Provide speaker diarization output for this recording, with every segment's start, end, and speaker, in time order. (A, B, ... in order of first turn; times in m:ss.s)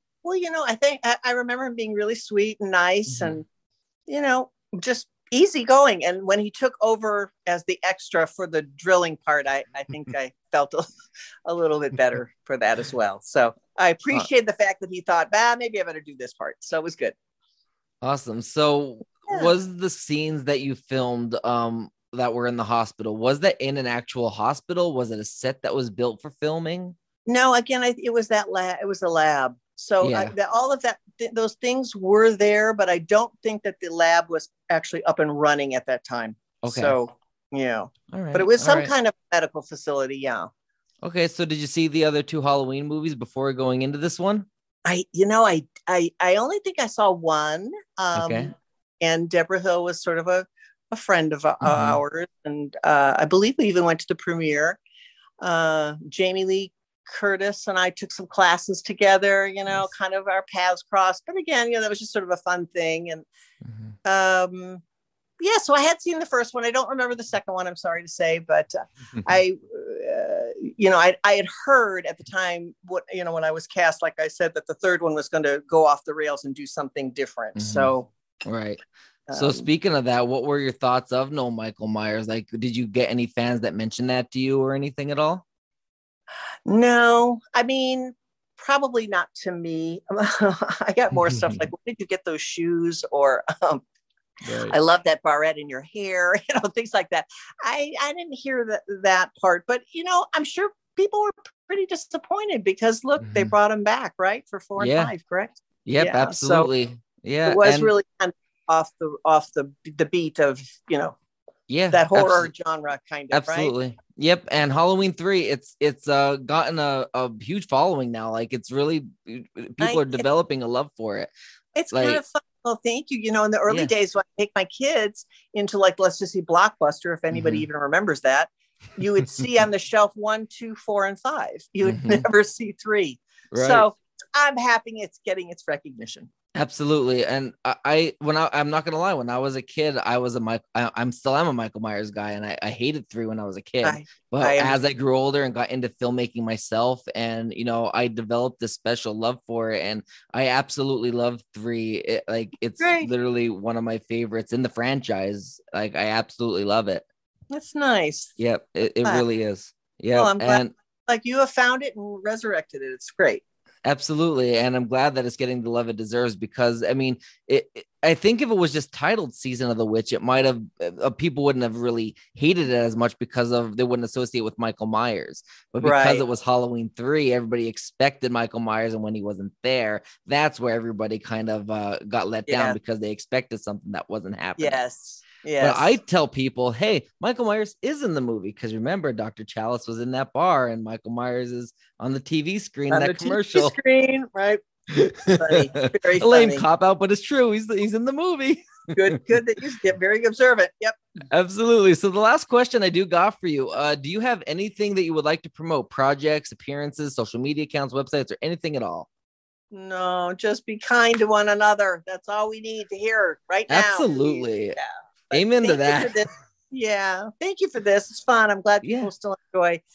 0:00.2-0:03.4 A
0:03.1-0:03.4 B
0:04.1-0:10.8 A
0:11.4-0:17.1 A
0:18.0-0:26.9 B
0:19.3-0:19.5 A
0:27.2-0:40.5 A
0:30.0-0:30.3 B
0:36.6-0:37.0 B
0:38.1-0:38.9 B
0:41.0-0:44.5 B
0:44.8-0:54.8 A
0:48.1-0:48.5 B
0:51.6-0:52.0 B
0:55.4-1:03.3 A
1:03.6-1:03.9 B
1:04.0-1:04.8 A
1:05.4-1:18.1 A
1:17.5-1:17.9 B
1:18.4-1:18.8 B
1:19.3-1:19.6 A
1:19.3-1:25.4 B
1:26.7-1:33.8 A
1:31.3-1:31.6 B
1:34.4-1:34.7 B
1:34.6-1:46.7 A
1:43.2-1:43.5 B
1:44.8-1:45.1 B
1:45.8-1:47.9 B
1:47.4-1:51.2 A
1:51.7-1:52.5 B
1:51.9-1:53.7 A
1:53.3-2:01.3 B
1:59.8-2:00.2 A
2:01.7-2:16.3 A
2:01.9-2:02.2 B
2:07.3-2:07.6 B
2:11.8-2:12.2 B
2:13.5-2:13.8 B
2:16.5-2:37.0 B
2:23.8-2:24.8 A
2:32.8-2:33.1 A
2:37.5-2:38.4 A
2:38.4-2:40.7 B
2:40.1-2:43.4 A
2:43.8-3:04.8 B
2:55.8-2:56.2 A
3:02.5-3:02.8 A
3:04.6-3:06.0 A
3:05.6-3:13.7 B
3:12.9-3:14.6 A
3:14.9-3:19.0 B
3:15.3-3:16.6 A
3:19.0-3:21.0 A
3:21.3-3:29.1 B
3:29.7-3:39.8 A
3:33.7-3:34.8 B
3:35.3-3:36.2 B
3:38.8-3:39.1 B